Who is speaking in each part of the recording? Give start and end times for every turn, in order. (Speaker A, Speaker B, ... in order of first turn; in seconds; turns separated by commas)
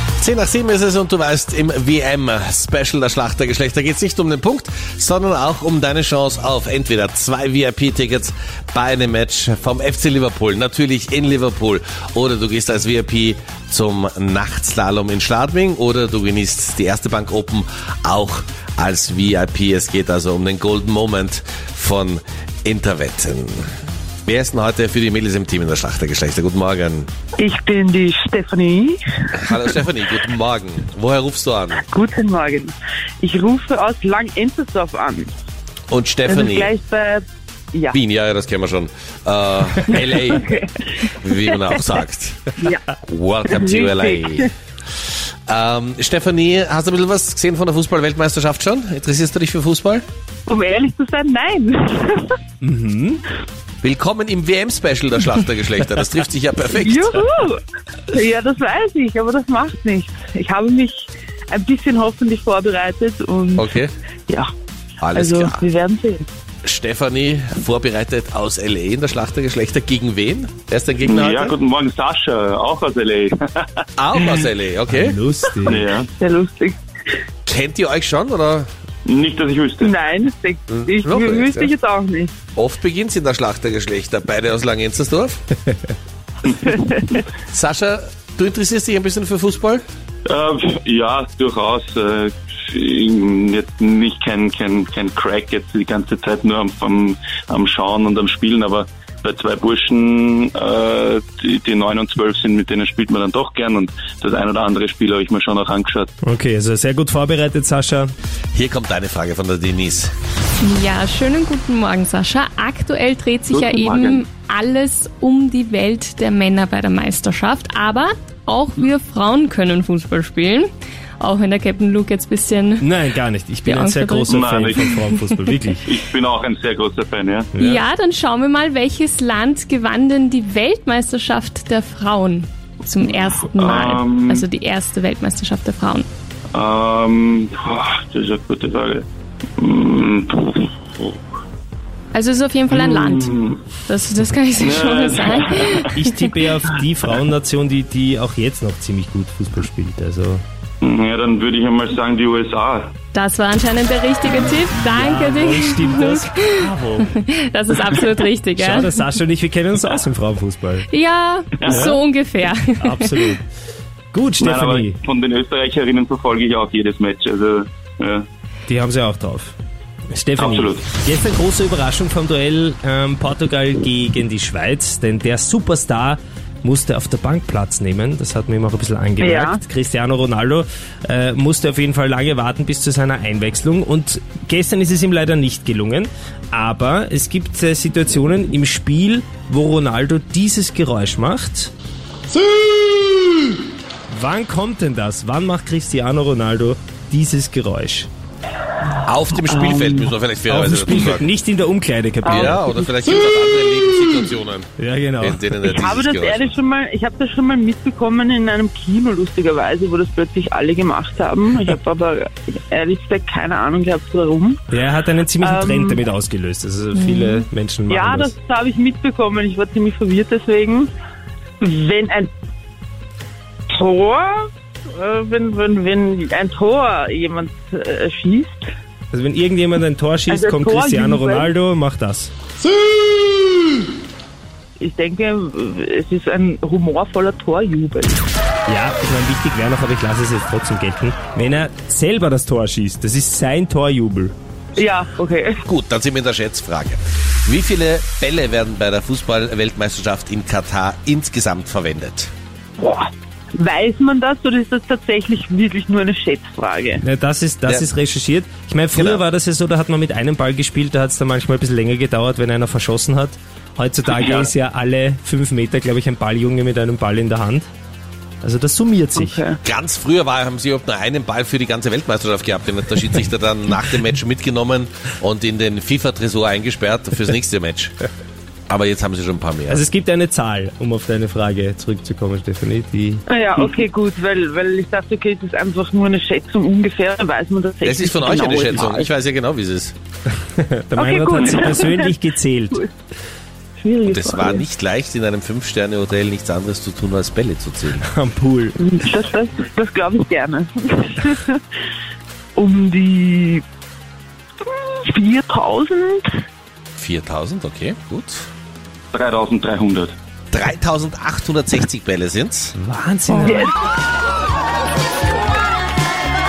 Speaker A: 0.2-23.6, Speaker A: 24.3-27.1, Speaker B: 27.4-29.7, Speaker A: 29.4-31.8, Speaker B: 31.9-35.3, Speaker A: 35.9-36.7, Speaker B: 36.3-38.0, Speaker A: 37.9-40.5, Speaker B: 39.9-40.7, Speaker A: 41.1-42.5, Speaker A: 43.1-44.5, Speaker B: 43.5-44.5, Speaker A: 45.5-50.0, Speaker B: 50.5-52.3, Speaker C: 52.6-53.2, Speaker A: 53.8-57.2, Speaker B: 56.7-57.6, Speaker B: 58.1-63.8, Speaker A: 63.6-63.9, Speaker A: 65.0-65.6, Speaker B: 65.1-66.3, Speaker A: 66.7-71.6, Speaker D: 71.0-74.4, Speaker A: 74.0-75.2, Speaker C: 74.9-75.8, Speaker D: 75.6-76.1, Speaker B: 76.2-76.8, Speaker A: 77.5-78.7, Speaker D: 79.0-80.0, Speaker B: 79.8-82.3, Speaker A: 80.7-81.7, Speaker A: 82.5-85.4, Speaker A: 87.5-89.8, Speaker D: 90.3-106.1, Speaker C: 106.2-108.1, Speaker A: 108.5-110.1, Speaker E: 110.6-120.7, Speaker D: 113.5-114.2, Speaker E: 121.2-122.9, Speaker C: 122.8-125.9, Speaker E: 123.7-125.2, Speaker D: 124.3-125.0, Speaker D: 125.8-127.5, Speaker C: 127.5-127.8, Speaker E: 127.6-136.1, Speaker D: 133.6-134.5, Speaker D: 136.6-139.1, Speaker D: 139.6-141.2, Speaker E: 142.1-146.3, Speaker D: 142.7-143.6, Speaker D: 144.6-145.9, Speaker C: 145.9-150.4, Speaker D: 150.8-152.9, Speaker E: 153.1-159.0, Speaker C: 154.7-157.1, Speaker C: 158.6-160.9, Speaker E: 160.9-163.3, Speaker D: 161.6-161.9, Speaker C: 161.6-162.0, Speaker C: 162.8-163.4, Speaker C: 164.1-165.0, Speaker D: 164.4-168.3, Speaker C: 168.7-169.5, Speaker C: 170.1-191.7, Speaker D: 170.4-170.9, Speaker B: 179.2-179.6, Speaker C: 194.1-198.1, Speaker A: 199.1-201.3, Speaker B: 199.5-200.1, Speaker C: 200.5-202.9, Speaker A: 202.3-206.6, Speaker C: 204.8-205.4, Speaker B: 205.6-214.6, Speaker C: 214.7-218.3, Speaker B: 215.4-216.0, Speaker E: 216.9-217.5, Speaker B: 217.9-220.9, Speaker B: 221.6-222.3, Speaker B: 223.7-228.7, Speaker C: 229.1-232.3, Speaker B: 230.3-231.5, Speaker B: 234.8-238.2, Speaker C: 238.7-244.3, Speaker B: 244.8-245.6, Speaker A: 245.7-252.3, Speaker B: 252.8-257.0, Speaker C: 257.0-267.7, Speaker A: 258.9-259.2, Speaker C: 268.4-269.4, Speaker B: 269.2-269.6, Speaker A: 269.6-278.0, Speaker A: 278.7-279.8, Speaker C: 279.7-283.3, Speaker B: 283.3-289.1, Speaker A: 287.8-289.9, Speaker C: 290.6-292.8, Speaker B: 290.9-292.2, Speaker B: 293.8-294.6, Speaker A: 294.1-298.1, Speaker C: 298.0-298.8, Speaker B: 298.8-301.6, Speaker B: 302.6-303.6, Speaker B: 304.7-306.3, Speaker A: 307.0-308.5, Speaker D: 309.1-310.2, Speaker A: 310.5-312.7, Speaker C: 312.7-313.7, Speaker B: 313.3-313.7